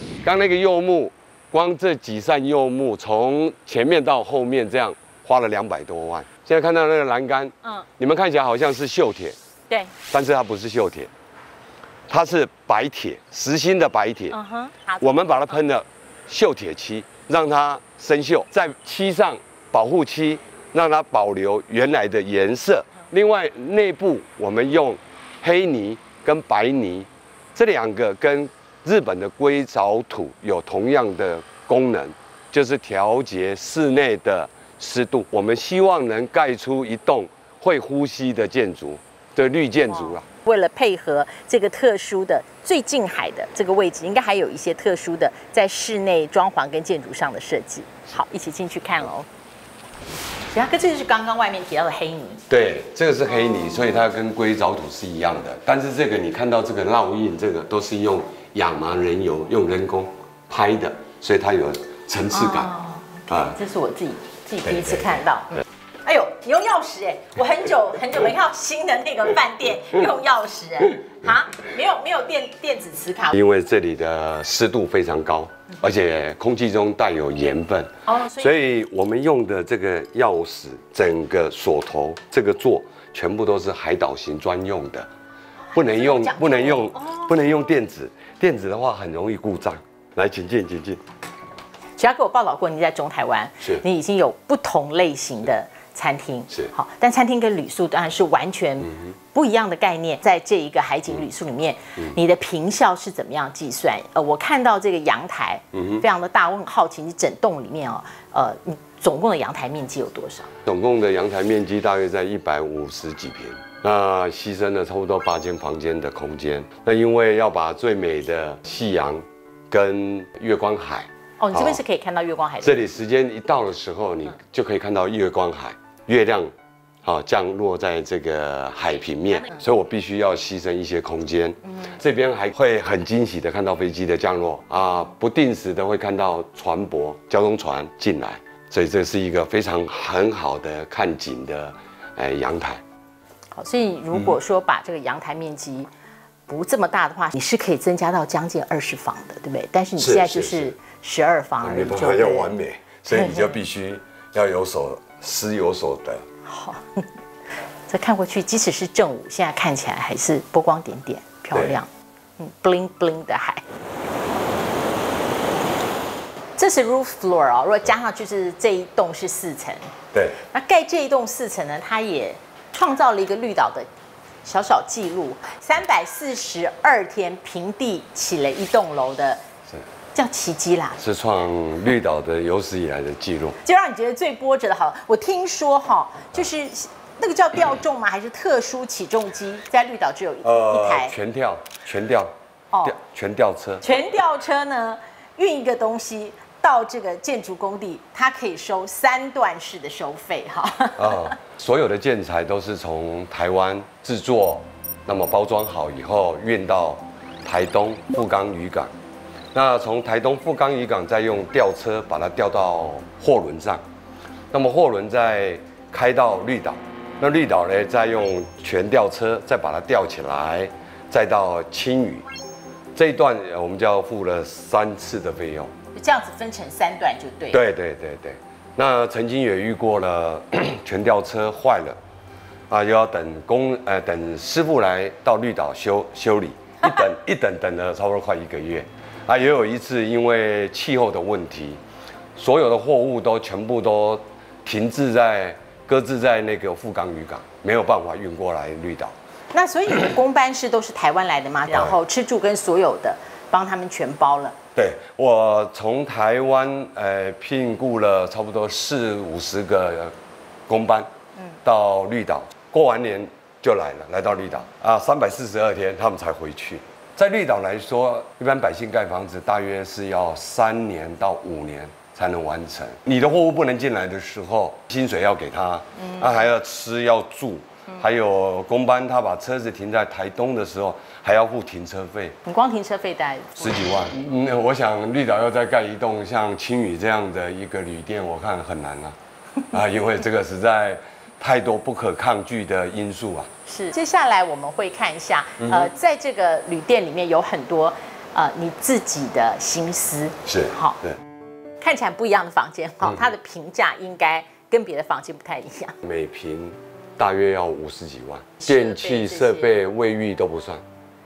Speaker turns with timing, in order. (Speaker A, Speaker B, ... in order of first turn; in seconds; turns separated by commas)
Speaker A: 0.2-9.4, Speaker A: 10.1-11.1, Speaker A: 12.1-14.4, Speaker B: 14.3-15.6, Speaker A: 15.0-40.2, Speaker B: 39.9-49.3, Speaker B: 50.5-52.4, Speaker A: 52.5-62.7, Speaker B: 53.3-54.0, Speaker B: 62.3-73.3, Speaker A: 63.3-63.6, Speaker A: 64.7-65.6, Speaker A: 73.3-85.1, Speaker B: 78.1-78.5, Speaker B: 85.7-87.3, Speaker A: 85.7-91.0, Speaker B: 92.0-110.5, Speaker A: 105.7-106.0, Speaker A: 110.7-121.8, Speaker B: 121.4-122.8, Speaker A: 122.6-126.5, Speaker A: 127.0-142.8, Speaker B: 131.7-131.9, Speaker B: 143.6-145.9, Speaker A: 144.1-144.4, Speaker B: 146.5-152.5, Speaker A: 150.0-150.7, Speaker A: 151.6-156.3, Speaker B: 153.1-153.6, Speaker B: 156.5-157.1, Speaker B: 157.9-161.9, Speaker B: 162.4-163.6, Speaker B: 166.6-169.9, Speaker A: 170.1-170.4, Speaker B: 170.5-173.9, Speaker B: 174.4-179.4, Speaker B: 180.2-181.0, Speaker A: 181.0-183.6, Speaker B: 183.6-191.1, Speaker A: 190.4-193.9, Speaker B: 193.8-201.3, Speaker A: 201.0-208.9, Speaker A: 209.5-213.8, Speaker A: 214.5-222.3, Speaker A: 222.9-225.7, Speaker B: 225.9-227.6, Speaker A: 227.5-232.0, Speaker A: 232.7-241.8, Speaker A: 242.4-249.2, Speaker B: 249.5-254.6, Speaker A: 251.7-252.0, Speaker A: 254.8-260.1, Speaker A: 260.7-261.1, Speaker A: 261.6-282.4, Speaker B: 276.0-276.3, Speaker B: 282.5-283.8, Speaker A: 283.6-289.2, Speaker A: 289.7-293.5, Speaker B: 293.7-301.0, Speaker A: 295.6-295.9, Speaker A: 300.5-301.2, Speaker B: 301.8-305.9, Speaker A: 306.0-310.8, Speaker B: 308.6-309.7